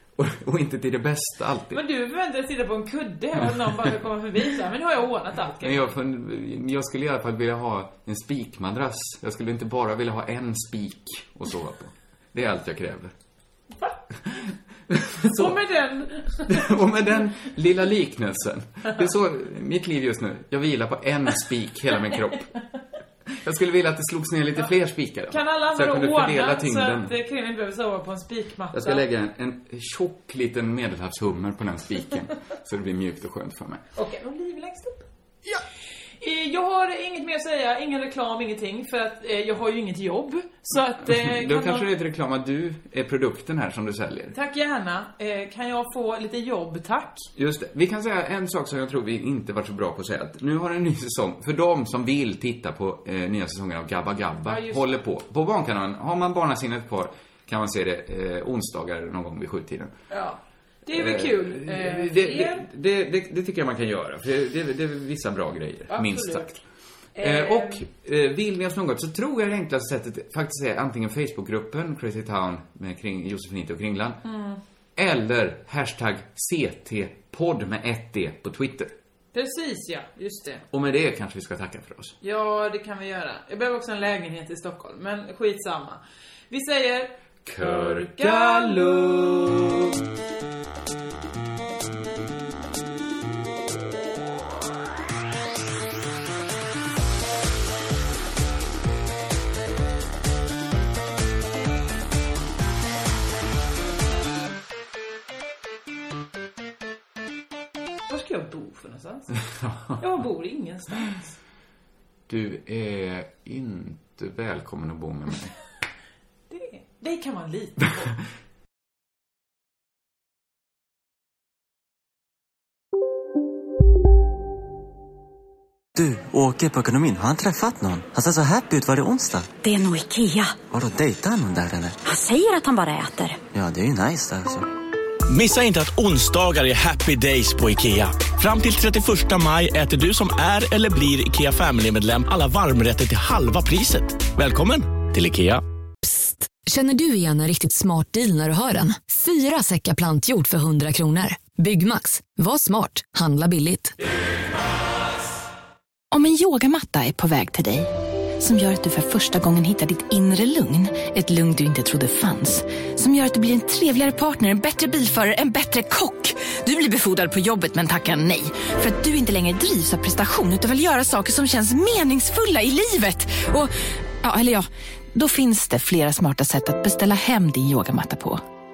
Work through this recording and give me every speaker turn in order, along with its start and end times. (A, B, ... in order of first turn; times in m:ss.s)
0:00.2-0:01.8 A
0:01.7-0:05.8 B
0:05.6-0:13.1 A
0:14.2-0:15.7 A
0:15.4-0:16.6 B
0:16.4-0:22.5 A
0:23.3-0:27.1 A
0:25.3-0:29.0 B
0:28.7-0:33.8 A
0:34.0-0:35.1 B
0:36.2-0:41.9 B
0:41.0-0:44.4 A
0:44.3-0:47.3 B
0:47.4-0:59.9 A
0:54.4-0:55.0 B
1:00.1-1:02.6 B
1:00.9-1:06.6 A
1:05.9-1:06.5 B
1:07.2-1:07.8 B
1:07.2-1:14.2 A
1:14.2-1:14.6 B
1:15.0-1:18.9 A
1:19.3-1:20.6 B
1:20.7-1:22.2 A
1:22.2-1:29.1 B
1:27.5-1:30.0 A
1:48.1-1:49.3 B
1:49.6-1:50.0 A
1:50.0-1:51.4 B
1:52.3-1:55.5 A
1:56.5-1:58.1 B
2:06.0-2:09.5 C
2:09.6-2:10.6 D
2:10.7-2:12.0 C
2:12.0-2:13.4 D
2:13.5-2:14.7 C
2:15.3-2:25.6 E
2:26.0-2:34.0 F
2:36.1-2:53.7 G
2:54.2-2:58.4 G